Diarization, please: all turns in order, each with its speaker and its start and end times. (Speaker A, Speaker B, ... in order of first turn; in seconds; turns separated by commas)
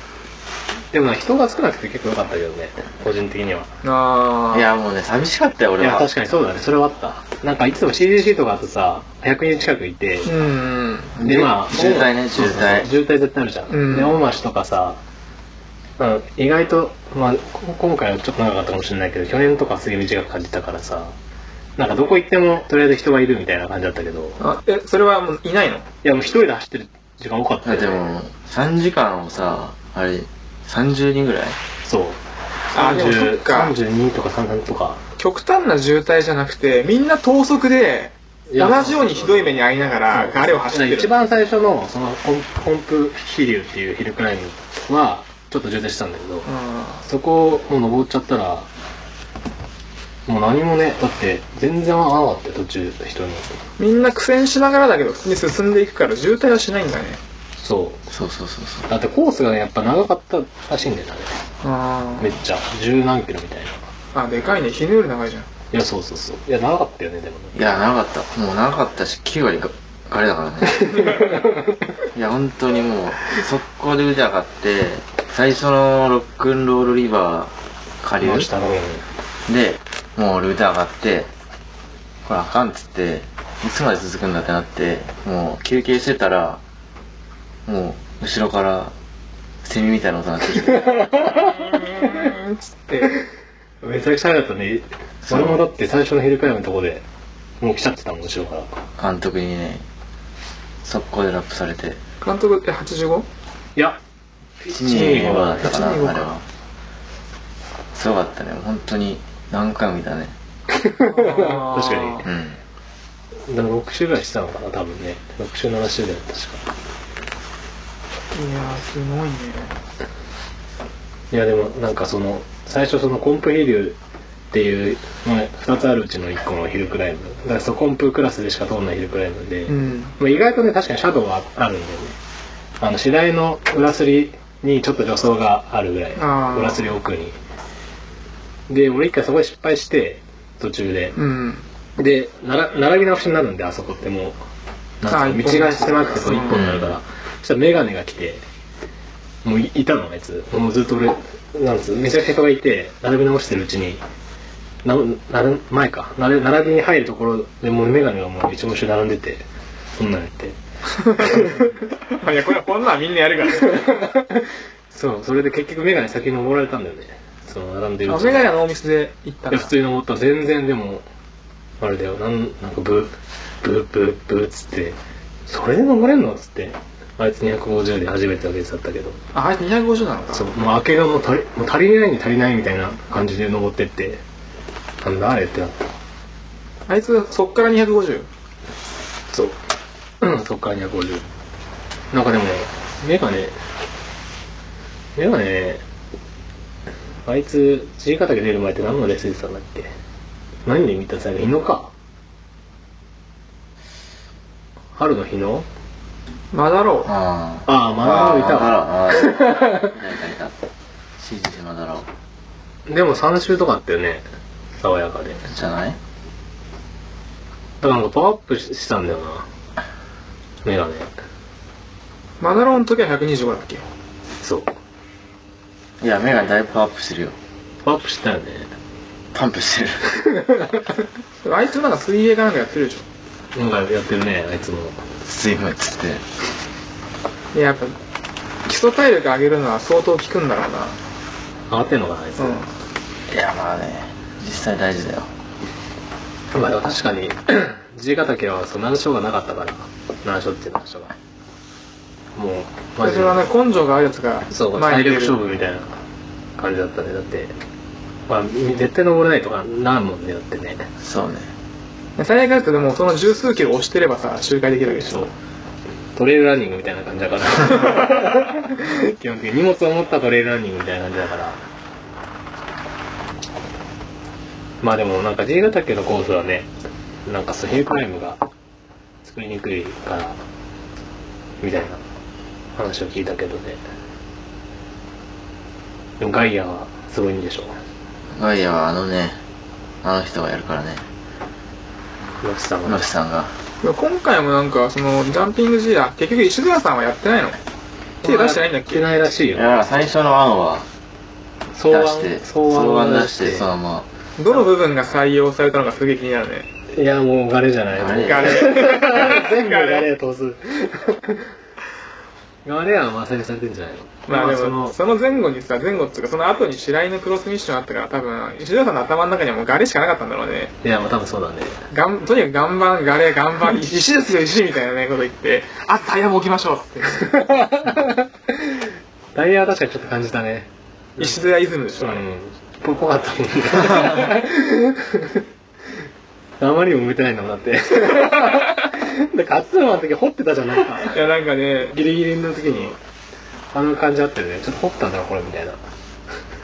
Speaker A: 0.9-3.7, Speaker B: 3.8-4.7, Speaker C: 4.5-6.1, Speaker A: 5.8-10.3, Speaker B: 10.2-11.1, Speaker C: 11.2-12.9, Speaker A: 11.2-15.0, Speaker B: 13.7-14.2, Speaker A: 16.0-21.1, Speaker A: 21.8-24.4, Speaker B: 24.4-25.9, Speaker A: 26.0-28.0, Speaker C: 27.6-31.6, Speaker A: 31.8-35.0, Speaker B: 32.7-33.7, Speaker B: 35.2-41.1, Speaker A: 38.5-39.5, Speaker A: 40.1-46.5, Speaker B: 46.5-47.0, Speaker A: 47.0-48.7, Speaker A: 50.2-53.5, Speaker B: 53.8-57.2, Speaker A: 57.6-58.0, Speaker C: 58.1-58.9, Speaker A: 58.9-61.4, Speaker B: 61.6-62.3, Speaker A: 62.2-63.8, Speaker B: 64.1-65.5, Speaker A: 65.7-67.6, Speaker C: 67.5-71.1, Speaker A: 70.8-71.5, Speaker C: 72.1-78.5, Speaker A: 78.2-79.0, Speaker C: 79.5-81.3, Speaker C: 82.2-86.6, Speaker C: 87.7-88.9, Speaker C: 89.6-90.9, Speaker A: 90.7-92.3, Speaker B: 91.3-93.1, Speaker A: 93.8-97.0, Speaker C: 95.2-95.6, Speaker A: 97.6-98.8, Speaker C: 99.0-99.8, Speaker C: 100.8-102.0, Speaker B: 102.2-103.3, Speaker A: 104.6-105.8, Speaker C: 104.7-106.4, Speaker B: 105.2-106.3, Speaker C: 107.9-110.3, Speaker A: 110.7-112.2, Speaker B: 111.1-112.2, Speaker C: 112.2-112.6, Speaker A: 113.5-116.7, Speaker B: 118.3-119.8, Speaker A: 121.3-124.0, Speaker A: 124.5-132.2, Speaker B: 129.7-130.1, Speaker A: 132.8-137.3, Speaker B: 136.2-136.9, Speaker A: 138.7-141.2, Speaker B: 141.1-141.7, Speaker A: 142.0-144.4, Speaker A: 145.0-148.4, Speaker B: 145.1-146.6, Speaker C: 146.5-147.0, Speaker A: 149.4-154.0, Speaker A: 154.8-160.6, Speaker B: 161.0-163.9, Speaker A: 161.2-161.7, Speaker A: 163.6-168.5, Speaker B: 168.1-169.7, Speaker A: 169.5-171.0, Speaker A: 171.8-179.2, Speaker B: 179.3-180.5, Speaker A: 180.3-184.2, Speaker A: 185.0-185.9, Speaker B: 186.9-188.3, Speaker A: 189.3-189.6, Speaker A: 190.2-191.2, Speaker A: 192.1-193.5, Speaker A: 195.2-195.8, Speaker A: 197.2-199.9, Speaker A: 200.6-201.9, Speaker A: 204.9-205.7, Speaker B: 206.5-207.1, Speaker C: 207.1-210.5, Speaker A: 207.7-209.9, Speaker C: 211.2-212.1, Speaker A: 212.9-214.2, Speaker A: 214.8-215.4, Speaker C: 215.5-216.0, Speaker A: 217.8-219.5, Speaker A: 220.6-221.1, Speaker B: 222.4-223.8, Speaker A: 224.4-224.7, Speaker C: 226.0-227.3, Speaker A: 227.8-228.7, Speaker C: 229.3-230.1, Speaker A: 230.2-230.8, Speaker B: 231.4-233.1, Speaker A: 233.5-235.0, Speaker C: 235.2-236.2, Speaker B: 237.5-237.9, Speaker B: 238.7-240.9, Speaker A: 241.7-242.6, Speaker B: 242.4-242.7, Speaker C: 243.3-245.3, Speaker A: 246.5-251.1, Speaker A: 252.3-253.4, Speaker B: 253.0-255.4, Speaker A: 254.5-255.9, Speaker A: 256.6-257.5, Speaker A: 258.3-260.9, Speaker C: 261.0-261.5, Speaker B: 262.2-265.3, Speaker A: 266.1-271.6, Speaker A: 274.8-276.7, Speaker A: 277.2-278.4, Speaker A: 279.2-280.4, Speaker A: 281.6-282.0, Speaker A: 282.8-283.8, Speaker A: 286.2-287.8, Speaker C: 288.3-289.4, Speaker C: 290.0-291.0, Speaker A: 292.4-293.1, Speaker C: 292.8-293.5, Speaker B: 293.8-297.6, Speaker B: 298.2-299.0, Speaker A: 298.2-299.8, Speaker C: 299.5-300.9, Speaker A: 301.7-303.7, Speaker C: 301.9-304.1, Speaker B: 304.4-306.7, Speaker A: 306.9-311.5, Speaker C: 307.9-308.7, Speaker B: 308.3-310.1, Speaker A: 312.6-314.9, Speaker B: 314.3-320.7, Speaker A: 320.8-321.8, Speaker B: 321.9-327.4, Speaker A: 327.2-331.4, Speaker B: 331.2-332.2, Speaker A: 332.0-335.4, Speaker A: 336.6-341.2, Speaker B: 341.0-342.0, Speaker A: 341.9-342.9, Speaker A: 343.7-345.8